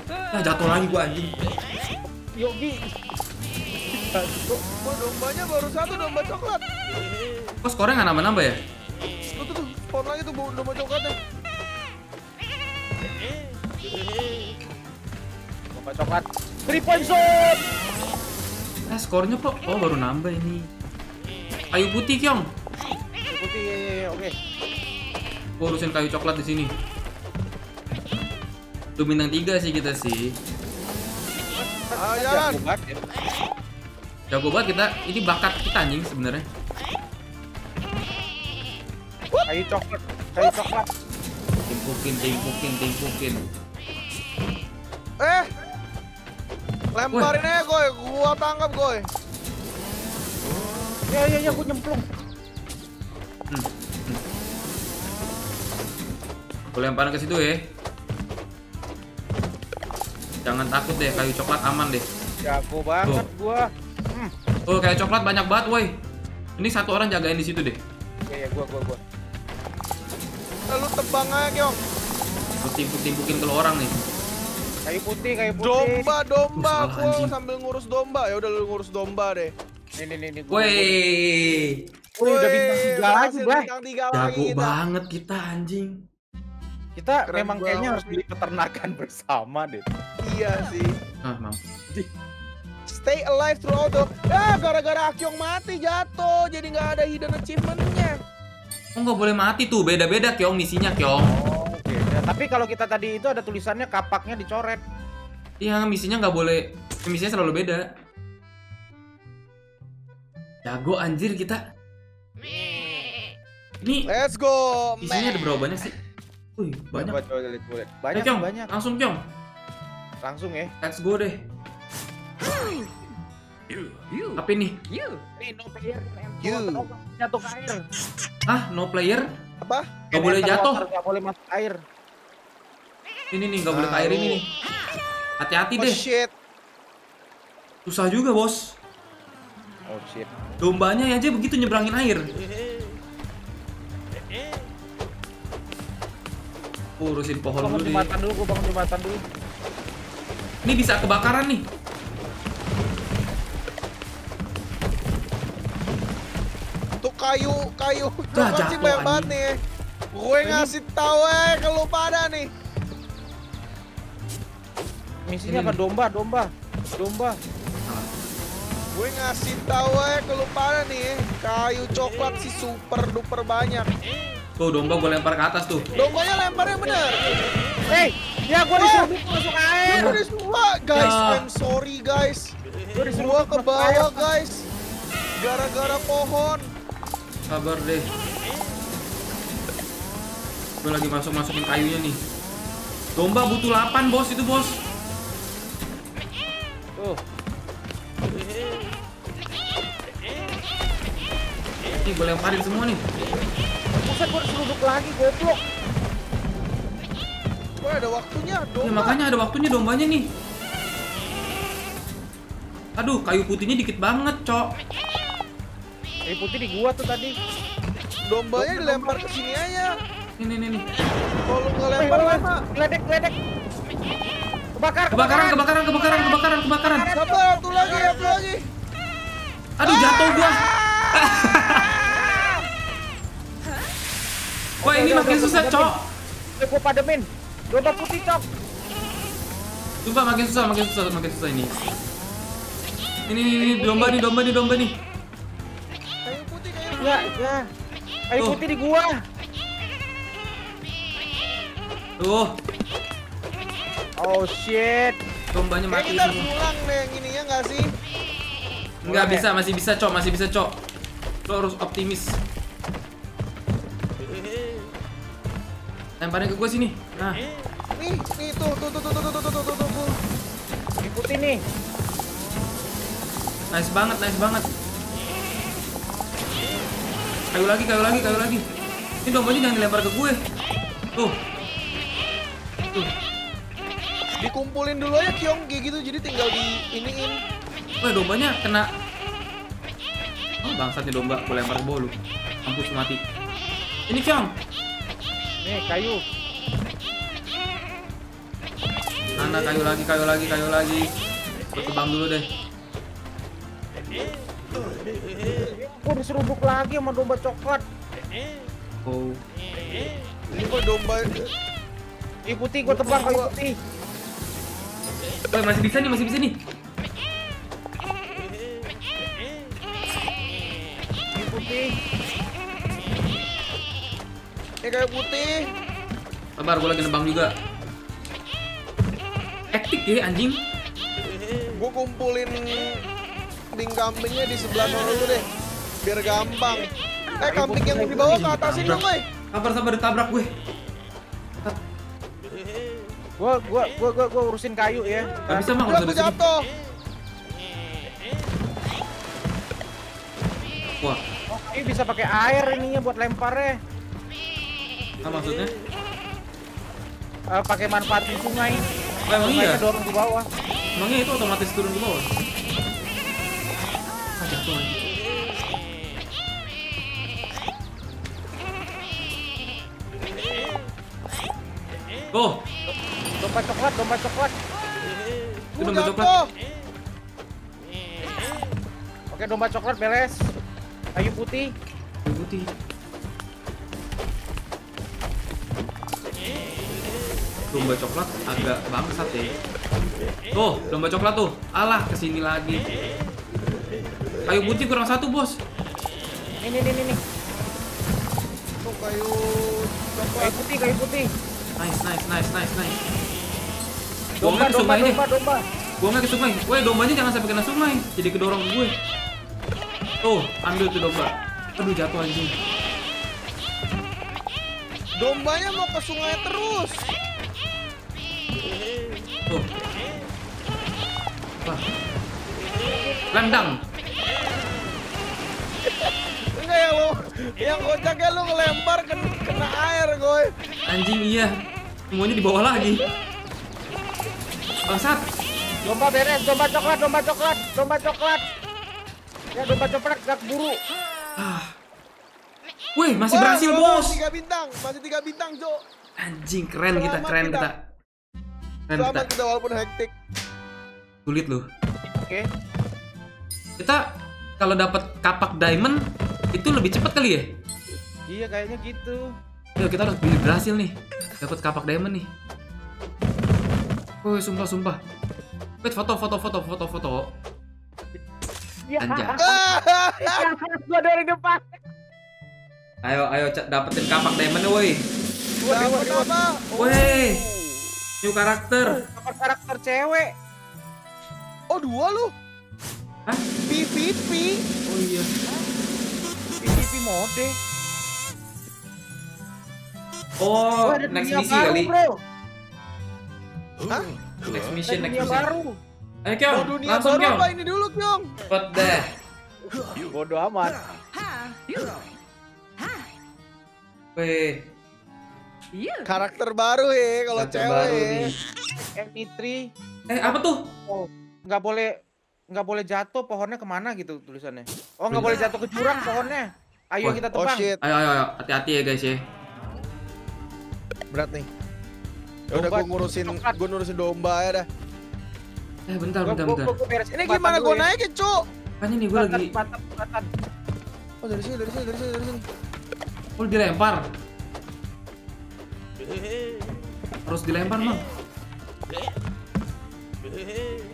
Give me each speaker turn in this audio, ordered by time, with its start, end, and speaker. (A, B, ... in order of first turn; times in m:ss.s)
0:00.3-0:01.3 A
0:02.1-0:02.8 B
0:04.0-0:04.6 B
0:04.8-0:06.6 C
0:07.6-0:08.6 A
0:09.3-0:11.2 C
0:15.8-0:17.6 B
0:18.9-0:20.7 A
0:21.7-0:22.5 A
0:23.3-0:24.3 B
0:25.6-0:26.7 A
0:29.0-0:30.4 A
0:31.6-0:33.0 B
0:32.0-0:32.6 C
0:34.3-0:36.4 A
0:39.5-0:40.9 B
0:41.7-0:43.4 A
0:45.2-0:45.5 C
0:47.0-0:49.1 C
0:51.1-0:52.0 B
0:53.5-0:54.2 A
0:56.7-0:57.6 A
1:00.4-1:02.1 A
1:02.4-1:04.3 B
1:04.7-1:05.9 A
1:06.6-1:07.8 A
1:08.3-1:09.0 B
1:10.7-1:11.8 C
1:12.6-1:14.0 A
1:14.9-1:16.1 B
1:15.6-1:19.5 C
1:16.6-1:17.3 A
1:20.0-1:21.0 B
1:20.5-1:21.8 A
1:22.2-1:23.7 B
1:22.2-1:24.8 C
1:24.1-1:26.0 A
1:27.0-1:29.9 B
1:27.3-1:28.2 C
1:30.2-1:31.0 C
1:31.2-1:31.6 A
1:32.9-1:38.2 C
1:39.0-1:41.3 A
1:41.2-1:44.8 B
1:45.6-1:47.9 A
1:50.6-1:51.6 A
1:53.8-1:54.1 A
1:54.1-1:55.5 C
1:55.0-1:55.9 A
1:56.6-1:57.2 A
1:57.0-1:58.7 B
1:58.2-1:59.2 A
2:00.2-2:00.7 B
2:00.8-2:01.4 A
2:04.4-2:04.9 A
2:05.4-2:07.8 B
2:06.4-2:06.8 C
2:08.5-2:09.3 A
2:09.6-2:10.0 C
2:10.1-2:10.8 A
2:10.1-2:11.8 B
2:13.3-2:14.5 A
2:13.7-2:14.4 C
2:15.4-2:16.0 A
2:15.8-2:16.3 C
2:17.9-2:18.7 A
2:19.9-2:20.3 B
2:20.6-2:22.3 A
2:27.0-2:28.1 A
2:27.6-2:29.2 B
2:30.6-2:31.6 A
2:37.0-2:39.6 C
2:38.3-2:39.3 A
2:40.2-2:42.5 C
2:40.4-2:40.7 A
2:45.3-2:47.4 B
2:45.5-2:45.8 A
2:48.9-2:53.9 C
2:54.6-2:55.9 A
2:56.0-2:57.3 C
2:57.9-3:00.2 B
2:58.7-2:59.1 C
2:59.9-3:02.5 C
3:00.9-3:01.4 A
3:03.0-3:04.3 B
3:03.2-3:04.7 C
3:05.4-3:06.7 C
3:07.5-3:08.1 A
3:10.8-3:12.2 A
3:13.2-3:14.8 A
3:22.0-3:23.0 A
3:24.0-3:25.6 B
3:27.8-3:29.2 C
3:28.8-3:30.3 A
3:33.0-3:34.7 A
3:36.3-3:37.3 B
3:38.3-3:39.9 C
3:38.6-3:39.2 B
3:40.4-3:40.9 A
3:41.5-3:42.6 C
3:42.0-3:43.4 B
3:44.8-3:45.6 B
3:45.2-3:47.1 A
3:46.9-3:48.4 B
3:47.2-3:48.7 C
3:49.8-3:51.9 A
3:49.8-3:52.4 C
3:54.8-3:55.9 B
3:54.8-3:56.0 A
3:56.6-3:58.4 B
4:00.0-4:01.7 A
4:03.3-4:05.0 A
4:03.6-4:04.2 B
4:06.2-4:07.4 C
4:07.0-4:07.7 B
4:08.3-4:09.1 B
4:12.2-4:12.6 A
4:14.2-4:15.2 B
4:15.5-4:16.5 A
4:15.9-4:17.9 C
4:19.1-4:19.5 B
4:19.1-4:20.8 A
4:21.5-4:22.4 A
4:26.2-4:27.4 A
4:28.0-4:30.2 C
4:31.0-4:31.6 B
4:33.7-4:34.7 A
4:37.5-4:38.6 A
4:39.2-4:40.4 A
4:44.4-4:47.4 C
4:48.0-4:48.9 A
4:50.6-4:53.2 A
4:54.1-4:54.5 A
4:55.6-4:56.2 B
4:59.4-5:01.1 A
5:01.8-5:02.5 A
5:05.7-5:07.8 B
5:09.1-5:09.4 A
5:10.5-5:11.3 C
5:12.5-5:13.7 B
5:12.8-5:13.5 C
5:15.5-5:16.6 A
5:21.4-5:21.9 B
5:24.8-5:25.7 C
5:26.6-5:27.5 A
5:29.7-5:30.6 A
5:31.8-5:33.0 C
5:33.7-5:35.5 C
5:36.0-5:36.9 C
5:37.4-5:39.3 C
5:37.4-5:39.0 B
5:38.3-5:40.5 A
5:43.4-5:45.7 B
5:45.5-5:46.4 A
5:45.8-5:46.6 C
5:51.5-5:53.7 B
5:55.2-5:55.7 A
5:57.5-5:58.8 B
5:59.3-5:59.8 A
5:59.4-6:00.5 B
6:01.0-6:02.3 A
6:04.4-6:05.0 A
6:12.3-6:12.6 A
6:13.4-6:14.6 B
6:15.8-6:16.5 C
6:15.8-6:16.3 A
6:19.3-6:20.4 B
6:21.2-6:21.7 B
6:22.2-6:22.7 A
6:27.7-6:29.5 A
6:30.5-6:32.8 A
6:34.5-6:35.6 A
6:36.6-6:37.2 B
6:38.8-6:40.6 C
6:40.4-6:41.3 B
6:41.8-6:43.0 A
6:44.4-6:45.6 B
6:44.4-6:45.2 A
6:46.0-6:48.9 A
6:50.2-6:52.6 A
6:55.2-6:57.1 C
7:03.3-7:03.8 A
7:05.9-7:10.5 C
7:10.9-7:11.5 A
7:12.1-7:13.0 A
7:14.9-7:15.2 A
7:15.9-7:18.4 B
7:19.6-7:20.8 B
7:21.4-7:21.7 A
7:23.0-7:24.2 A
7:23.3-7:25.8 C
7:26.2-7:27.8 A
7:26.9-7:27.7 C
7:28.9-7:29.3 A
7:29.0-7:30.1 C
7:31.3-7:31.7 A
7:32.1-7:32.5 B
7:34.6-7:36.0 A
7:36.5-7:37.5 A
7:38.3-7:39.2 B
7:39.8-7:42.3 A
7:44.2-7:45.0 A
7:45.8-7:47.3 A
7:48.9-7:51.8 B
7:49.0-7:49.4 A
7:49.4-7:50.5 C
7:53.0-7:55.1 A
7:55.6-7:56.3 B
7:55.6-7:57.8 C
7:56.8-7:57.4 A
7:58.2-7:59.0 A
7:59.0-8:00.3 B
8:01.7-8:02.3 C
8:03.7-8:04.7 C
8:04.9-8:05.3 A
8:06.6-8:07.6 B
8:10.4-8:11.9 A
8:10.8-8:12.2 B
8:14.5-8:15.5 A
8:14.9-8:15.8 B
8:16.2-8:17.5 A
8:16.5-8:18.3 C
8:18.5-8:19.1 A
8:20.1-8:20.8 B
8:24.2-8:24.6 A
8:26.0-8:28.3 C
8:27.4-8:28.4 A
8:28.8-8:29.6 B
8:30.1-8:30.6 A
8:30.9-8:31.9 B
8:32.5-8:37.7 B
8:35.1-8:35.4 A
8:37.3-8:37.8 C
8:37.8-8:39.2 A
8:41.1-8:41.5 C
8:42.5-8:44.7 C
8:42.5-8:43.6 B
8:45.9-8:46.7 A
8:46.2-8:47.9 B
8:47.1-8:48.4 C
8:48.8-8:49.5 A
8:49.2-8:50.3 B
8:51.2-8:52.4 C
8:53.4-8:54.0 A
8:57.3-8:58.0 A